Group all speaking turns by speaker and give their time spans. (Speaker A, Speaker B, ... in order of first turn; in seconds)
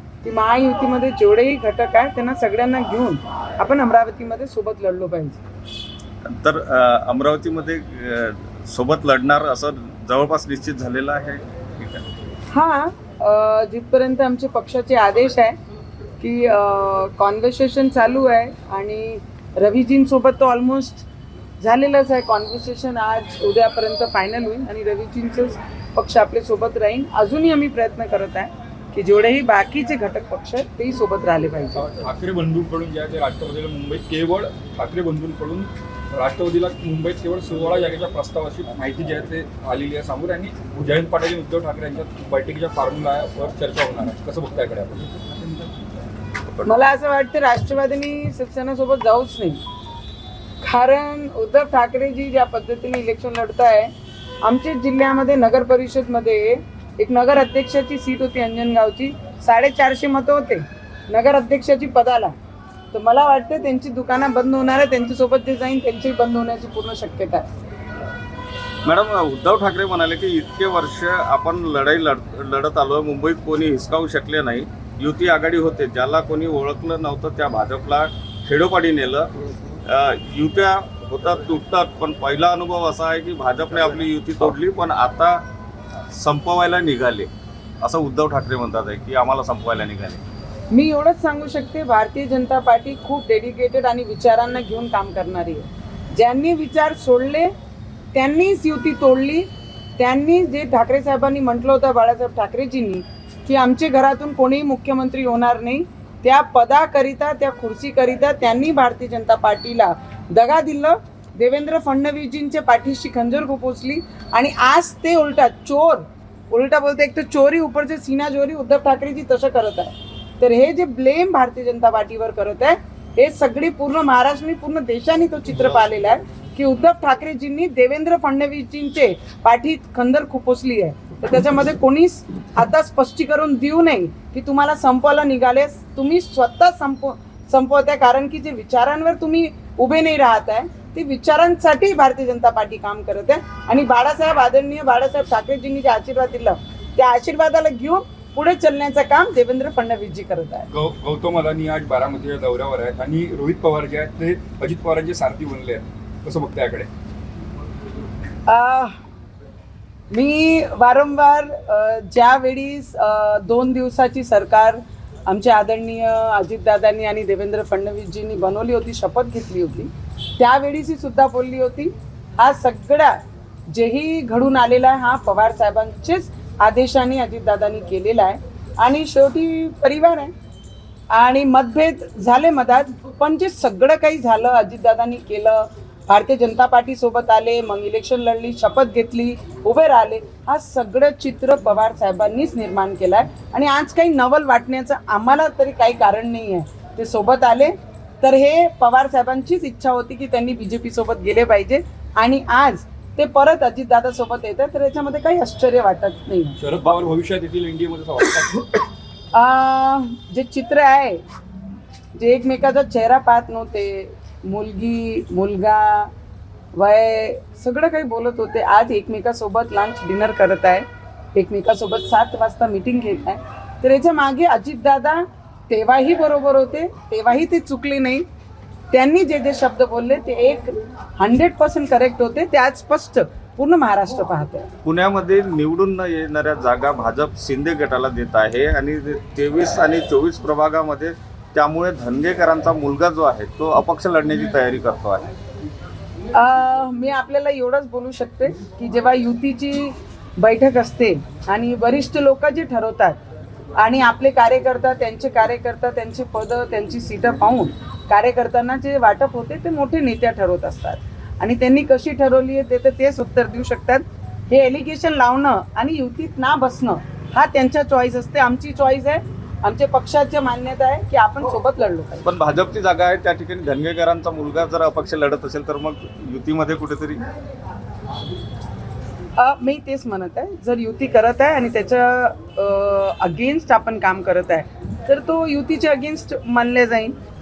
Speaker A: 0.2-5.4, 12.5-15.6, 16.2-21.1, 21.6-31.9, 46.6-49.6, 50.6-62.3, 62.9-67.5, 90.7-97.5, 98.1-150.7, 158.5-158.9, 160.1-173.2, 173.7-180.3, 181.1-206.6, 209.3-211.2, 212.1-216.1, 216.7-228.2, 228.9-234.7, 246.3-253.2, 253.8-272.3, 279.4-287.1
Speaker B: 6.3-12.0, 68.8-79.3, 79.8-85.4, 86.1-87.3, 87.8-90.2, 234.8-245.2, 272.2-277.2
Speaker C: 31.8-45.1, 150.7-156.9, 206.6-208.7